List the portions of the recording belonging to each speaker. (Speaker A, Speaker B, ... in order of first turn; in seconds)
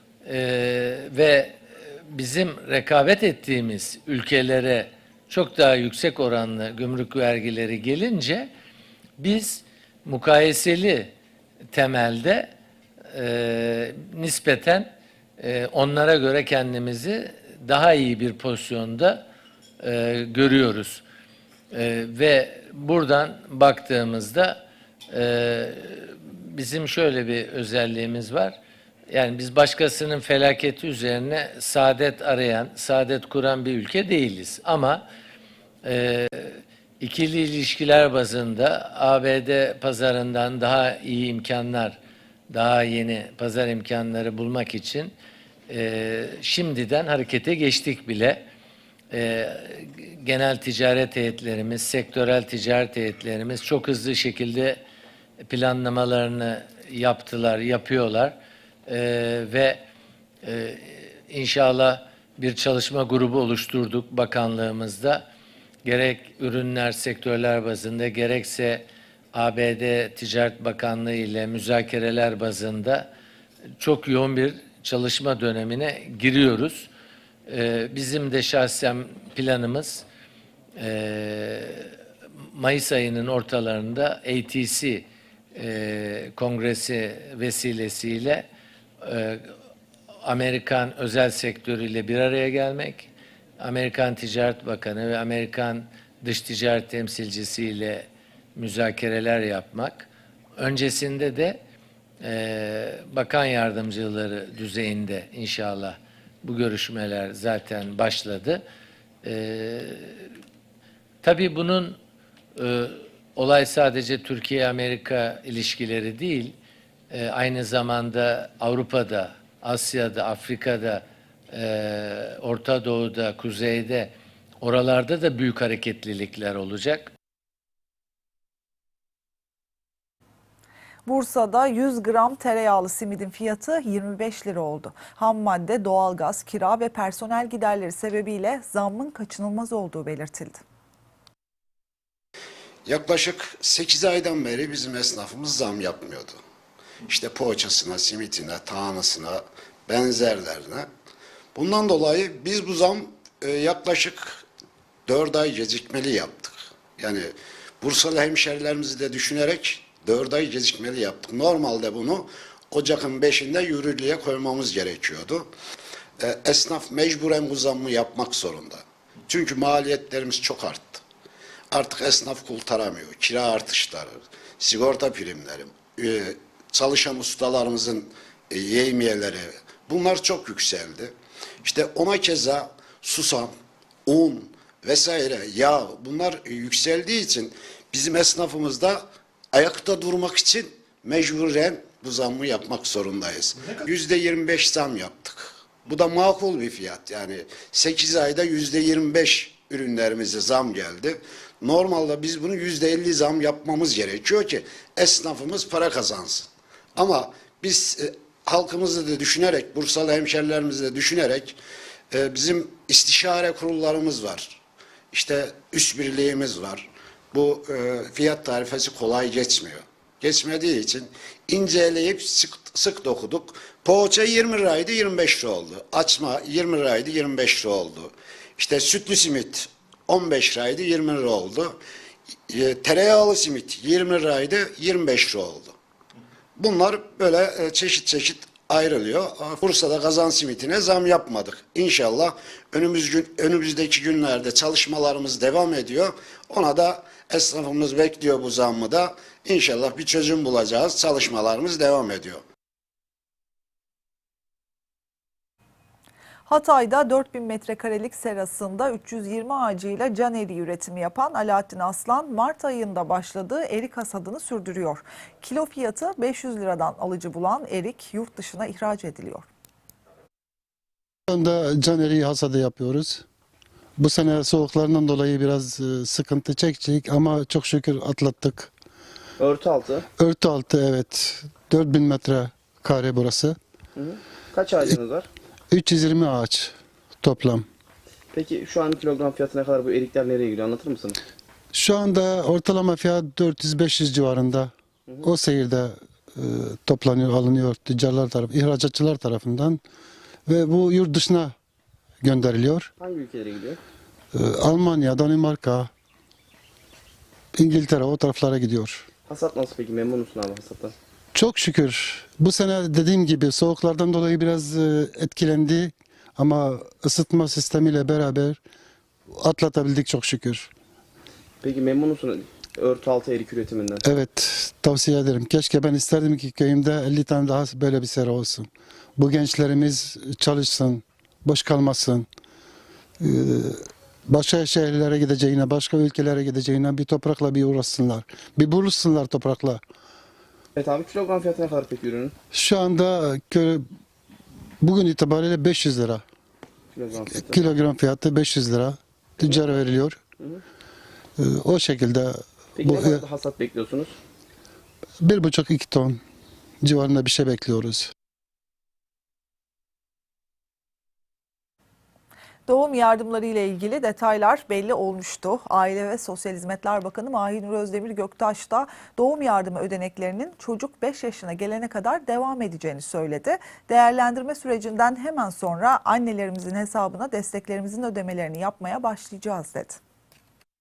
Speaker A: 0.2-1.6, 2.1-8.5, 9.2-11.1, 11.7-12.5, 13.1-19.2, 19.8-21.0, 21.7-28.6, 29.1-35.0, 35.8-42.0, 42.5-45.1, 45.7-48.4, 49.1-54.8, 55.4-58.4, 58.9-59.8, 60.4-65.2, 65.8-73.1, 73.8-76.9, 77.5-80.1, 80.8-81.9, 82.5-88.5, 89.0-89.5, 90.2-101.6, 102.2-108.6, 109.2-110.3, 111.2-112.0, 112.6-116.5, 117.1-127.1
Speaker B: 131.1-140.6, 256.5-269.5, 362.7-380.0
Speaker C: 142.9-146.4, 147.1-150.9, 151.6-154.4, 155.1-165.5, 166.2-171.0, 171.7-183.5, 184.1-189.0, 189.5-211.6, 212.1-214.6, 215.1-231.8, 232.5-235.7, 236.6-252.4
Speaker D: 271.3-273.2, 274.0-278.7, 280.2-283.6, 285.7-287.7, 291.7-294.7, 295.2-299.8, 300.5-301.5, 302.2-302.9, 304.3-305.9, 307.6-309.1, 311.3-318.6, 319.3-320.7, 324.0-332.3, 333.2-339.8, 342.5-343.9, 344.8-346.2, 347.4-350.2, 351.4-353.2, 355.2-356.2, 356.8-358.1
Speaker E: 279.4-280.1, 284.0-285.3, 288.3-291.2, 303.0-303.8, 309.3-310.9, 321.6-324.0, 340.8-342.3, 346.9-347.6, 352.8-354.2